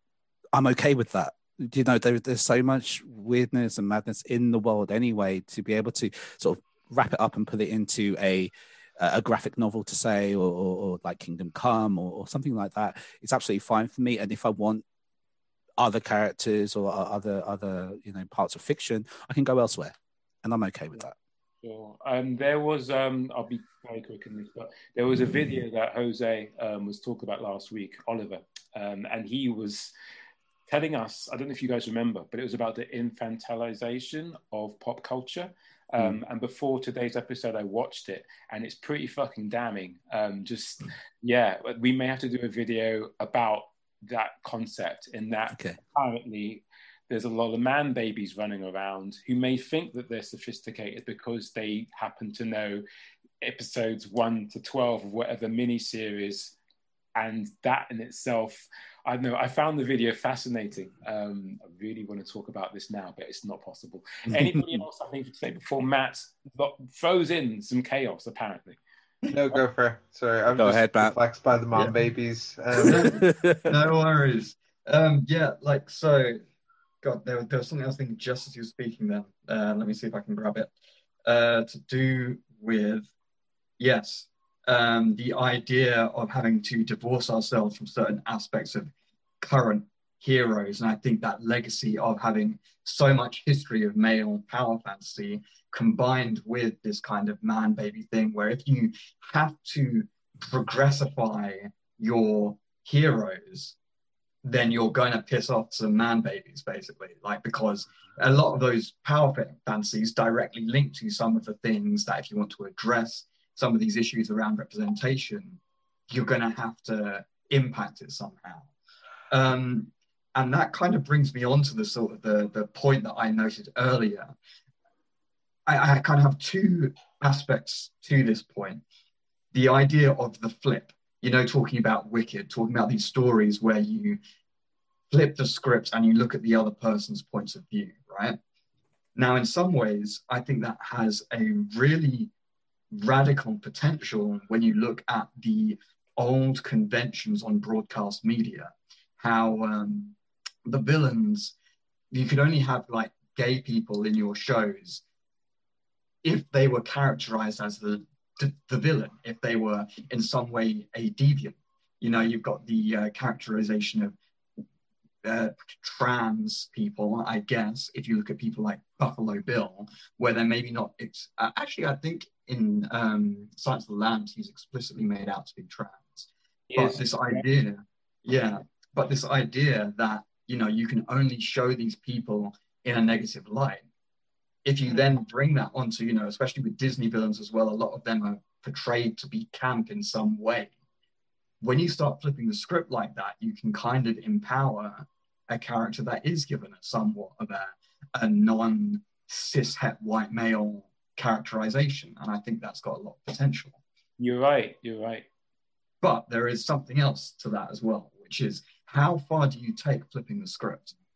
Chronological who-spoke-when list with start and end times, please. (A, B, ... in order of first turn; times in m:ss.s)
0:00.5-0:14.8 A
0:15.8-0:21.1 A
0:21.6-0:29.9 B
0:30.7-0:52.8 B
0:45.5-0:45.8 A
0:53.4-0:56.6 B
0:57.2-1:08.8 B
1:04.3-1:04.8 A
1:09.3-1:13.2 C
1:10.5-1:11.2 A
1:11.7-1:12.0 D
1:12.8-1:13.7 A
1:12.8-1:16.4 D
1:17.0-1:20.7 D
1:21.2-1:23.1 D
1:23.8-1:43.8 D
1:44.4-1:55.6 D
1:56.1-1:58.7 D
1:59.3-2:04.3 D
2:05.7-2:08.8 D
2:09.5-2:14.2 D
2:15.1-2:18.4 D
2:19.2-2:22.3 D
2:22.9-2:30.2 D
2:30.7-2:31.5 D
2:32.1-2:35.0 D
2:36.2-2:44.2 D
2:45.2-3:03.8 D
2:56.7-2:57.4 B
3:04.6-3:10.7 D
3:11.6-3:23.8 D
3:24.2-3:25.3 B
3:26.0-3:31.0 D